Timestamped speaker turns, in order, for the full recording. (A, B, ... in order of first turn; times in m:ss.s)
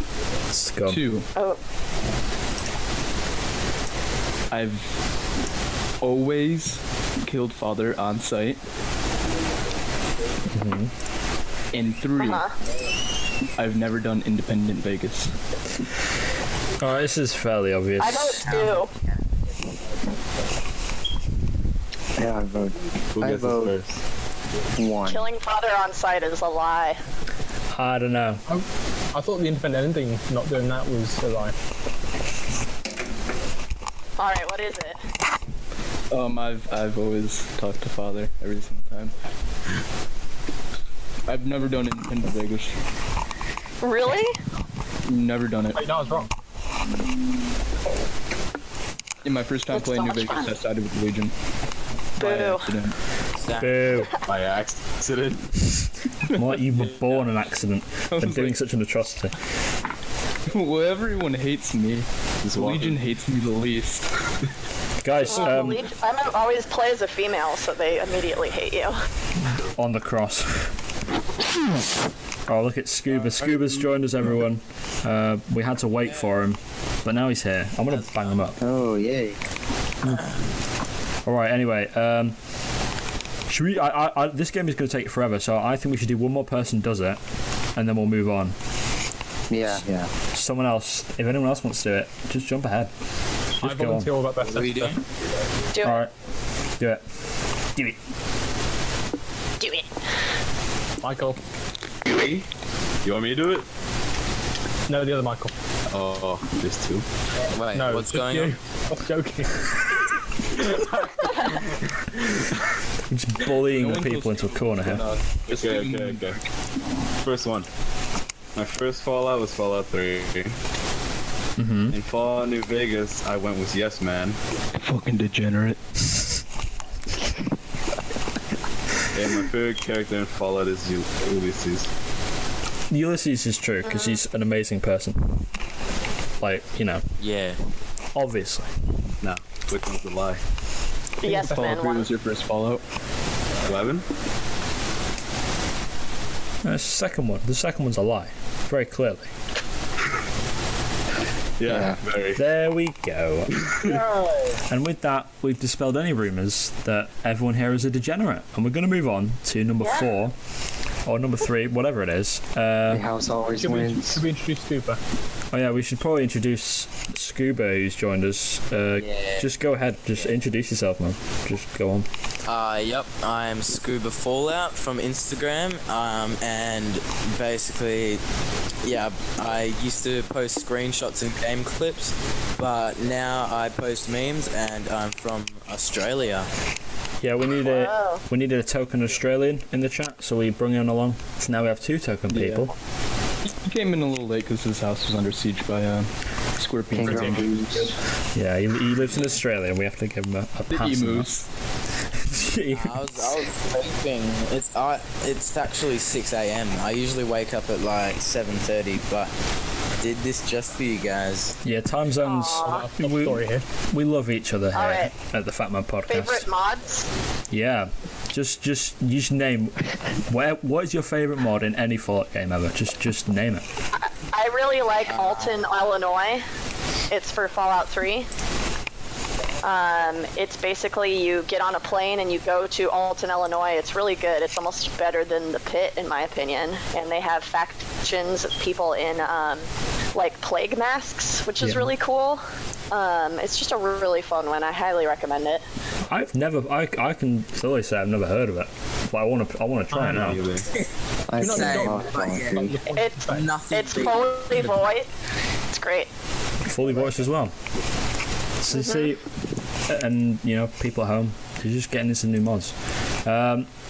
0:00.5-0:01.0 A
0:00.9-0:01.3 B
0:04.5-0:05.0 B
0:06.0-0:08.6 B
0:10.5-0:10.9 A
0:11.7-0:12.5 B
0:12.2-0:12.5 C
0:13.6-0:15.3 B
0:16.8-0:18.7 A
0:18.0-0:18.9 C
0:22.2-0:23.8 D
0:23.2-0:24.0 E
0:24.8-0:25.3 D
0:25.1-0:27.0 C
0:27.7-0:28.4 A
0:28.5-0:31.6 F
0:34.2-0:35.0 C
0:36.1-0:39.1 B
0:41.3-0:42.8 B
0:43.8-0:44.4 C
0:45.1-0:45.9 B
0:45.8-0:46.3 F
0:49.2-0:51.3 B
0:49.7-0:50.4 C
0:52.2-0:53.0 B
0:52.2-0:52.7 C
0:53.4-0:53.8 G
0:53.6-0:54.1 A
0:54.3-0:55.6 E
0:56.2-0:59.3 A
0:58.1-0:58.6 B
1:00.5-1:04.1 B
1:02.4-1:03.0 E
1:05.0-1:05.9 A
1:05.3-1:09.0 C
1:09.6-1:10.8 A
1:12.5-1:18.6 A
1:18.6-1:19.4 D
1:21.2-1:22.4 A
1:23.5-1:27.2 A
1:27.8-1:28.6 A
1:29.5-1:30.1 D
1:30.3-1:32.9 A
1:33.6-1:34.1 A
1:33.6-1:35.0 F
1:34.4-1:35.0 G
1:35.8-1:36.0 C
1:35.8-1:36.1 A
1:39.6-1:39.9 C
1:41.0-1:41.4 F
1:42.0-1:42.5 E
1:43.0-1:43.7 E
1:44.9-1:45.5 F
1:45.9-1:47.1 E
1:47.5-1:48.5 G
1:47.7-1:49.6 F
1:50.7-1:51.6 E
1:53.1-1:55.0 A
1:53.6-1:56.4 B
1:55.5-1:56.4 E
1:57.2-1:57.7 E
1:58.6-2:00.6 E
2:01.6-2:02.0 A
2:01.9-2:04.4 E
2:04.8-2:06.3 B
2:09.1-2:11.9 E
2:12.9-2:15.5 A
2:13.9-2:14.2 C
2:16.4-2:17.0 A
2:17.2-2:17.6 G
2:18.1-2:18.7 A
2:19.2-2:20.4 E
2:21.2-2:22.1 C
2:21.2-2:22.8 B
2:23.6-2:24.1 E
2:26.6-2:29.3 A
2:31.6-2:32.4 E
2:31.6-2:32.0 D
2:32.4-2:33.7 A
2:33.6-2:34.0 E
2:34.6-2:40.4 A
2:39.8-2:40.1 C
2:41.1-2:43.1 A
2:42.9-2:44.2 D
2:43.6-2:45.0 F
2:45.5-2:52.1 A
2:49.0-2:49.5 G
2:52.5-2:58.2 G
2:58.8-3:06.5 G
3:07.2-3:12.7 A
3:07.7-3:08.2 C
3:12.3-3:12.7 B
3:13.6-3:17.9 B
3:16.9-3:17.9 D
3:17.0-3:17.5 F
3:18.3-3:21.3 A
3:20.7-3:21.5 B
3:22.1-3:23.3 A
3:22.7-3:29.3 G
3:30.0-3:31.6 G
3:31.6-3:36.5 A
3:32.2-3:32.8 C
3:32.6-3:33.6 F
3:34.8-3:35.1 C
3:36.1-3:37.1 C
3:37.5-3:43.7 A
3:44.0-3:46.4 C
3:45.1-3:45.6 G
3:47.1-3:48.3 C
3:49.6-4:05.6 C
4:06.1-4:10.4 A
4:09.9-4:10.4 F
4:10.1-4:10.7 E
4:11.3-4:12.8 D
4:11.4-4:13.5 F
4:11.4-4:12.8 G
4:13.0-4:15.1 C
4:13.3-4:14.4 G
4:15.7-4:16.1 C
4:16.6-4:17.5 A
4:18.6-4:19.2 A
4:19.9-4:23.7 A